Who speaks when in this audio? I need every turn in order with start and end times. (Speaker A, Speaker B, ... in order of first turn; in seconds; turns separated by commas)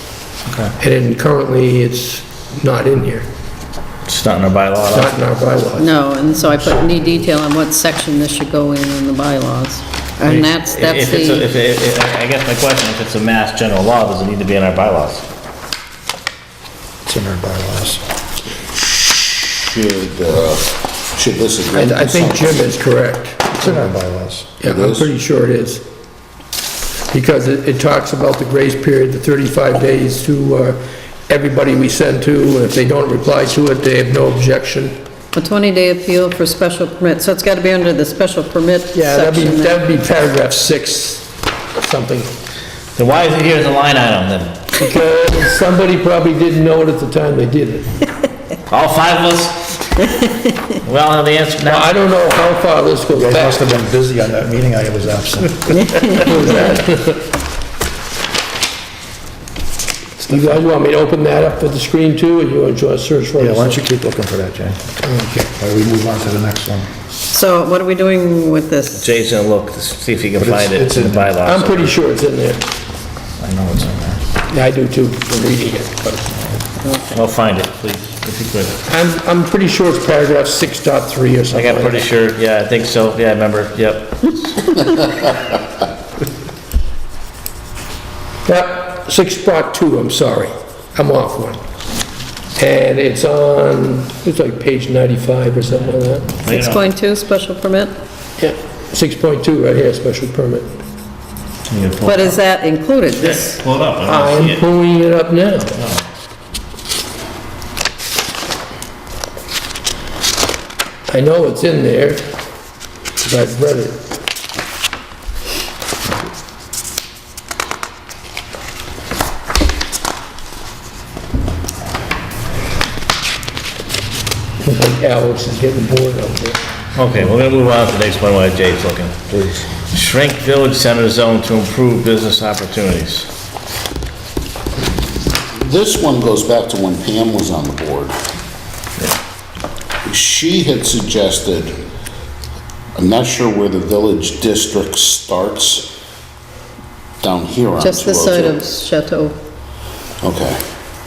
Speaker A: 0.5-0.7, Speaker B: 0.8-3.2, Speaker A: 4.0-5.1, Speaker B: 4.9-5.9, Speaker C: 5.8-11.5, Speaker B: 6.5-6.9, Speaker A: 10.2-15.2, Speaker D: 17.0-18.0, Speaker E: 19.6-22.6, Speaker B: 21.7-23.9, Speaker D: 23.5-24.5, Speaker B: 24.6-25.8, Speaker E: 24.6-25.1, Speaker B: 27.1-35.0, Speaker C: 35.3-39.8, Speaker B: 38.9-42.3, Speaker A: 43.0-44.6, Speaker B: 44.7-48.1, Speaker A: 48.7-50.0, Speaker A: 50.8-51.9, Speaker B: 51.6-53.6, Speaker D: 53.1-55.8, Speaker C: 55.7-56.8, Speaker B: 56.2-57.2, Speaker B: 60.1-63.8, Speaker D: 63.4-65.0, Speaker B: 65.0-65.5, Speaker D: 65.5-66.9, Speaker C: 67.3-69.1, Speaker A: 69.0-71.9, Speaker D: 70.4-71.3, Speaker B: 71.4-72.7, Speaker D: 73.4-74.2, Speaker B: 74.5-76.3, Speaker C: 76.8-77.2, Speaker A: 77.1-78.8, Speaker B: 78.9-82.0, Speaker A: 81.5-85.3, Speaker B: 88.5-91.6, Speaker B: 92.5-96.4, Speaker A: 96.4-96.8, Speaker C: 96.5-97.9, Speaker B: 98.4-100.8, Speaker A: 101.7-102.4, Speaker C: 102.0-103.6, Speaker A: 103.2-104.6, Speaker B: 104.0-105.8, Speaker A: 105.7-106.0, Speaker B: 111.1-112.2, Speaker B: 113.2-114.1, Speaker B: 124.6-126.6, Speaker A: 127.0-133.3, Speaker D: 129.3-129.6, Speaker E: 135.5-138.2, Speaker E: 140.0-141.8, Speaker E: 142.9-145.9, Speaker E: 147.2-148.6, Speaker C: 147.8-149.4, Speaker E: 150.2-150.6